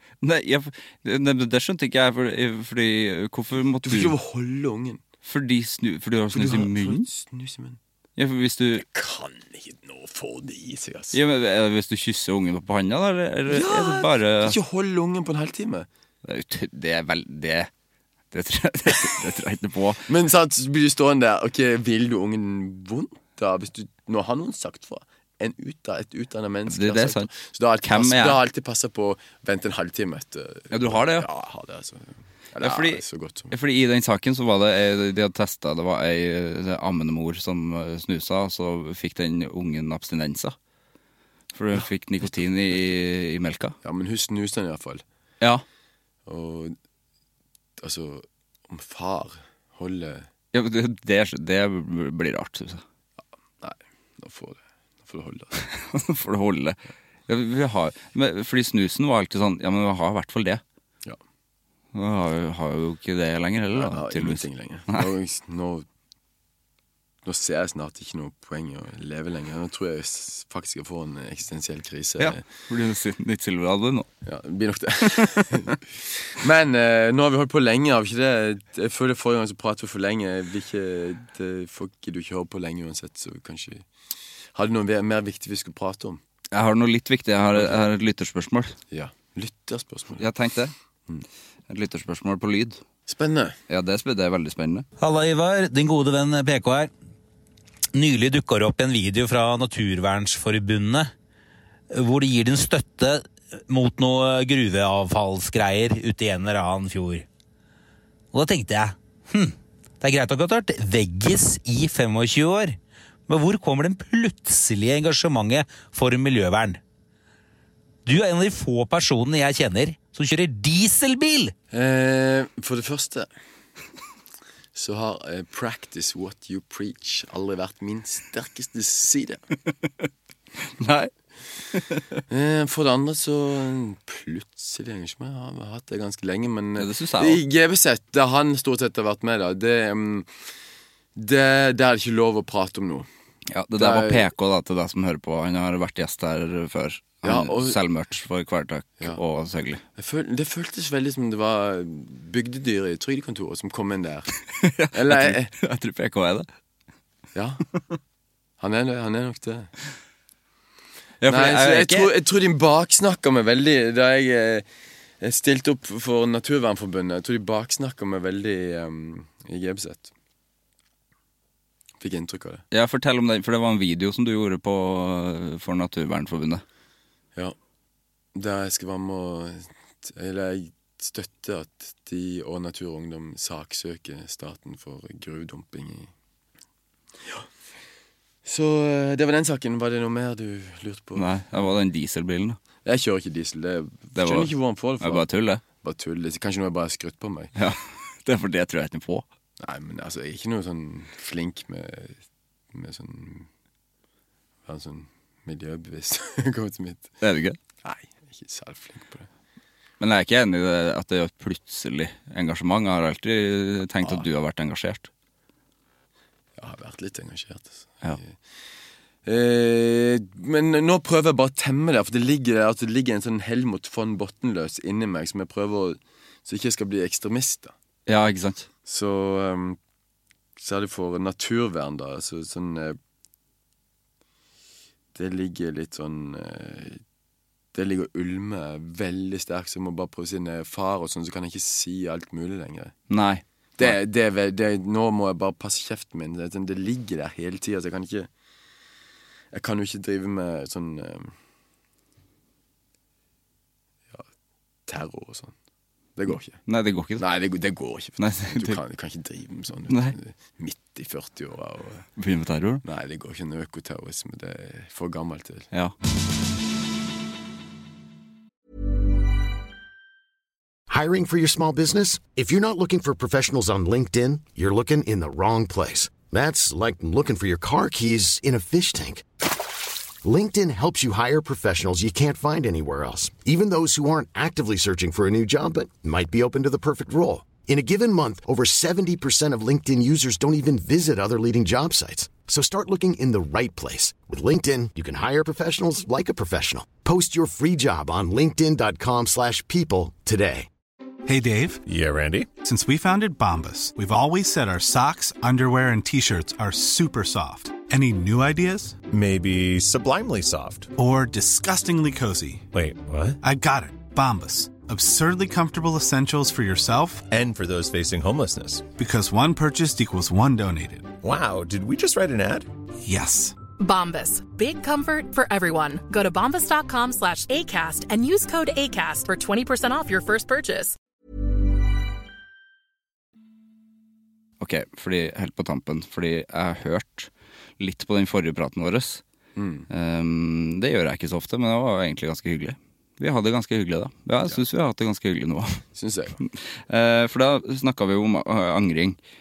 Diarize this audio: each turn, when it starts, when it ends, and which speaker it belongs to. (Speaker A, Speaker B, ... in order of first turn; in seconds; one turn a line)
Speaker A: 0.2-4.1
Speaker B: 3.8-5.0
Speaker A: 5.2-7.1
Speaker B: 6.3-7.8
Speaker A: 8.2-8.8
Speaker B: 8.9-11.2
Speaker A: 11.1-14.6
Speaker B: 13.5-15.9
Speaker A: 16.2-17.7
Speaker A: 18.3-20.1
Speaker B: 20.1-33.5
Speaker A: 26.7-27.3
Speaker A: 27.8-28.4
Speaker A: 30.7-31.3
Speaker A: 32.6-40.5
Speaker A: 41.5-43.8
Speaker B: 43.8-45.0
Speaker B: 46.2-46.8
Speaker B: 47.8-50.3
Speaker A: 50.5-52.8
Speaker B: 53.6-55.6
Speaker A: 55.7-60.6
Speaker A: 61.9-65.1
Speaker B: 63.8-65.8
Speaker B: 67.2-72.5
Speaker A: 72.2-74.1
Speaker B: 74.2-83.8
Speaker B: 84.5-86.2
Speaker A: 86.5-88.8
Speaker B: 88.9-90.3
Speaker A: 90.2-90.7
Speaker A: 91.7-92.8
Speaker B: 93.1-93.5
Speaker A: 93.7-94.9
Speaker C: 95.0-96.9
Speaker C: 97.9-101.1
Speaker C: 101.9-107.2
Speaker C: 108.3-116.8
Speaker C: 118.0-121.5
Speaker B: 121.7-123.3
Speaker B: 124.7-129.4
Speaker A: 130.6-131.1
Speaker A: 131.7-132.0
Speaker B: 132.3-140.4
Speaker A: 136.8-137.4
Speaker B: 141.2-143.1
Speaker A: 143.5-149.8
Speaker B: 143.8-144.3
Speaker B: 147.2-147.8
Speaker B: 149.9-154.4
Speaker A: 154.5-156.5
Speaker B: 154.9-155.5
Speaker B: 157.3-157.6
Speaker B: 158.6-159.7
Speaker A: 161.2-162.1
Speaker B: 161.2-164.6
Speaker B: 165.2-170.1
Speaker B: 172.0-172.6
Speaker A: 172.7-176.6
Speaker B: 178.3-186.1
Speaker B: 188.4-191.3
Speaker A: 191.1-192.6
Speaker B: 192.8-195.2
Speaker A: 194.2-195.6
Speaker B: 195.8-197.5
Speaker A: 197.6-199.2
Speaker B: 199.6-202.2
Speaker B: 202.7-203.5
Speaker B: 204.7-207.1
Speaker A: 207.2-207.6
Speaker B: 207.8-209.3
Speaker A: 210.0-215.1
Speaker B: 214.0-214.2
Speaker B: 216.6-218.3
Speaker B: 219.2-227.7
Speaker A: 228.1-228.7
Speaker B: 228.8-229.8
Speaker B: 230.6-233.0
Speaker B: 235.1-237.0
Speaker B: 237.7-242.9
Speaker A: 243.1-244.0
Speaker B: 243.8-248.3
Speaker B: 249.5-251.3
Speaker B: 254.8-255.5
Speaker B: 256.2-256.6
Speaker A: 256.3-257.2
Speaker B: 257.2-262.1
Speaker A: 258.2-258.8
Speaker A: 259.9-260.2
Speaker A: 262.2-262.8
Speaker B: 262.8-265.7
Speaker D: 270.9-279.2
Speaker D: 280.2-300.7
Speaker E: 301.2-301.8
Speaker F: 301.9-302.5
Speaker E: 302.6-309.0
Speaker F: 309.1-310.9
Speaker E: 310.9-312.7
Speaker F: 312.7-313.4
Speaker E: 313.4-317.3
Speaker F: 317.3-318.9
Speaker E: 318.9-321.1
Speaker F: 321.2-322.7
Speaker E: 323.0-323.6
Speaker G: 323.8-331.0
Speaker A: 334.6-339.2
Speaker B: 339.6-339.9
Speaker A: 339.9-345.8
Speaker B: 345.9-346.4
Speaker A: 346.4-349.2